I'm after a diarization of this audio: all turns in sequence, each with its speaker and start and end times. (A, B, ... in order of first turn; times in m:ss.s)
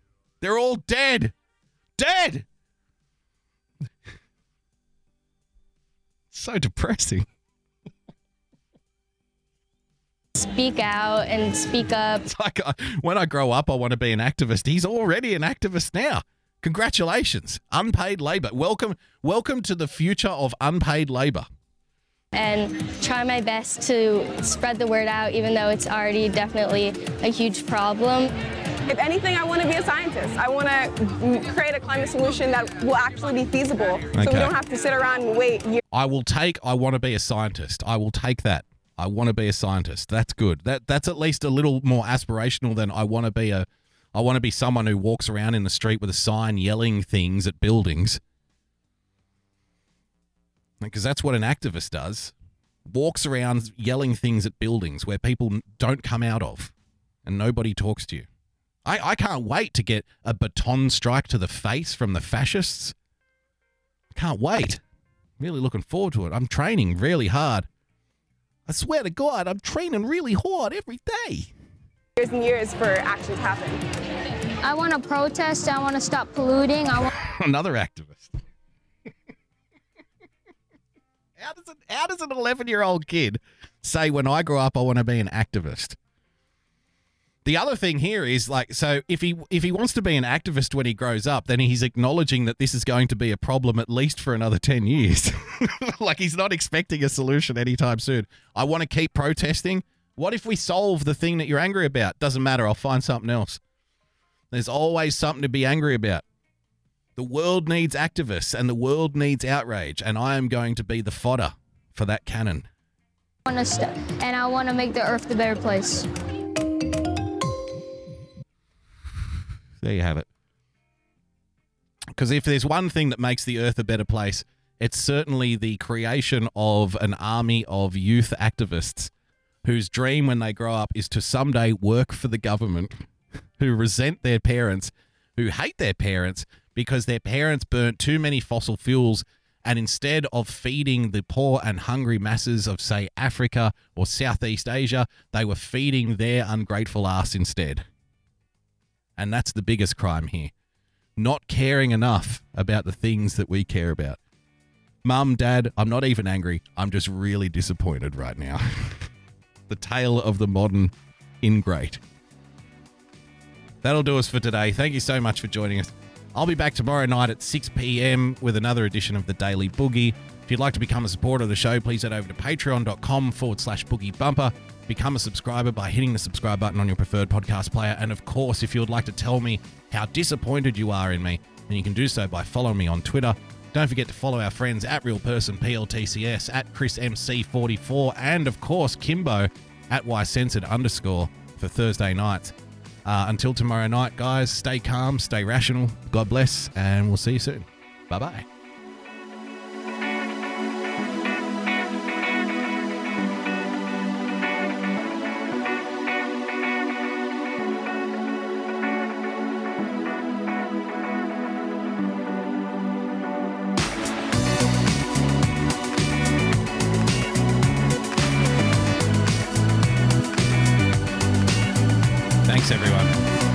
0:00.4-0:01.3 A
0:02.0-0:02.5 A
0:06.3-0:07.2 A
0:10.4-0:12.2 B
0:12.2-0:21.5 A
0:22.3-0:28.3 B
0:28.9-0:35.8 C
0:34.1-0:34.6 A
0:35.9-0:48.2 A
0:50.8-0:52.3 A
0:52.9-0:56.7 A
0:57.2-0:58.3 A
0:58.8-1:02.9 A
1:04.1-1:04.8 A
1:05.4-1:07.7 A
1:08.7-1:11.5 A
1:12.2-1:13.8 C
1:14.6-1:17.1 B
1:16.9-1:18.3 A
1:21.4-1:26.0 A
1:27.4-1:43.6 A
1:44.5-1:46.2 A
1:47.2-1:52.7 A
1:53.4-1:56.1 B
1:59.8-2:00.3 A
2:02.1-2:09.1 A
2:09.6-2:13.0 A
2:13.6-2:27.8 A
2:29.2-2:30.5 A
2:31.2-2:34.2 A
2:35.0-2:39.1 A
2:39.7-2:42.0 A
2:43.8-3:18.4 A
3:42.4-3:43.2 A